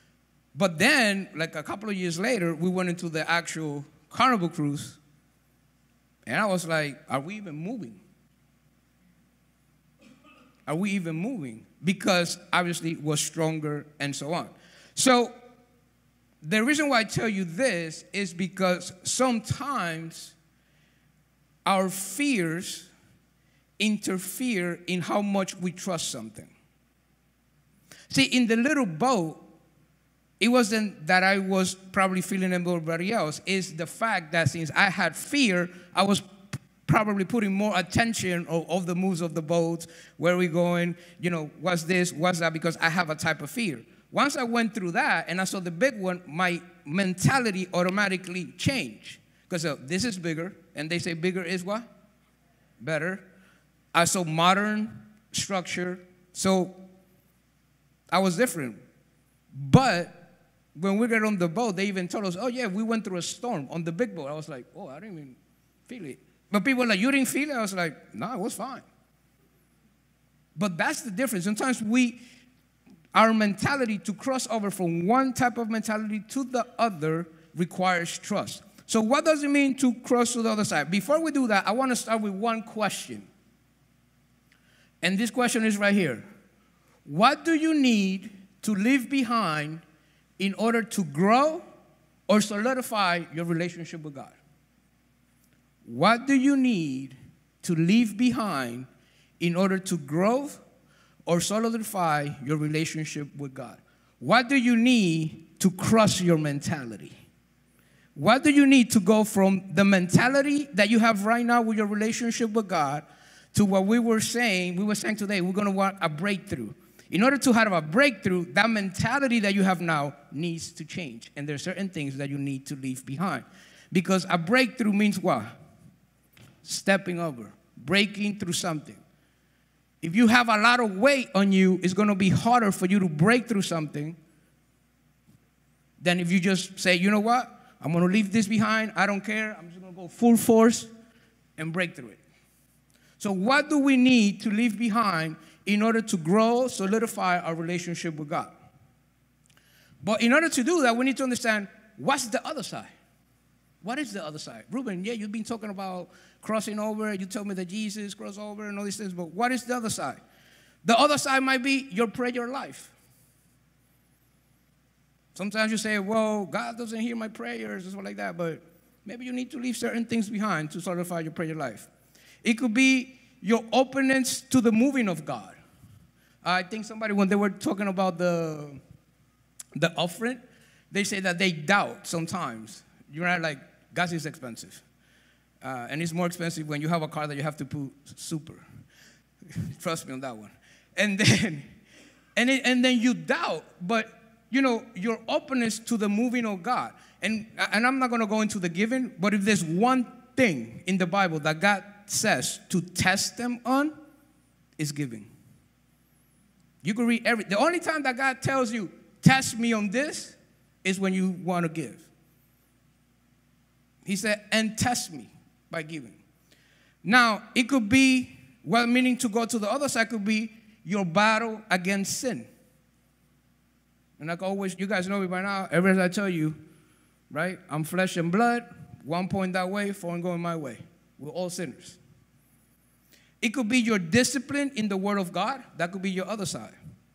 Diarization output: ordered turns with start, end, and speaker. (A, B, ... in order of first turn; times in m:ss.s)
0:00.5-0:05.0 A
0:06.3-0:08.0 A
0:10.7-0:15.4 A
0:16.4-0:20.4 A
0:21.6-0:22.9 A
0:23.8-0:26.5 A
0:28.1-0:29.4 A
0:30.4-0:36.3 A
0:36.8-0:51.9 A
0:52.8-0:53.3 A
0:53.9-0:56.9 A
0:58.1-0:58.8 A
0:59.5-1:08.9 A
1:10.6-1:12.2 A
1:13.1-1:23.3 A
1:25.0-1:26.3 A
1:27.0-1:29.8 A
1:30.4-1:31.6 A
1:32.3-1:34.4 A
1:35.8-1:38.9 A
1:39.4-1:40.6 A
1:41.3-1:47.2 A
1:48.2-2:05.6 A
2:06.6-2:09.0 A
2:10.0-2:14.2 A
2:16.0-2:20.9 A
2:21.6-2:22.2 A
2:23.2-2:28.6 A
2:30.0-2:32.9 A
2:33.8-2:40.2 A
2:40.8-2:43.0 A
2:45.4-2:51.9 A
2:52.4-2:55.6 A
2:56.4-2:58.8 A
2:59.8-3:04.8 A
3:05.6-3:08.6 A
3:09.5-3:11.7 A
3:12.4-3:23.9 A
3:24.8-3:25.3 A
3:26.8-3:32.1 A
3:34.0-3:36.2 A
3:37.0-3:42.5 A
3:44.2-3:46.6 A
3:47.3-3:52.0 A
3:53.4-3:56.8 A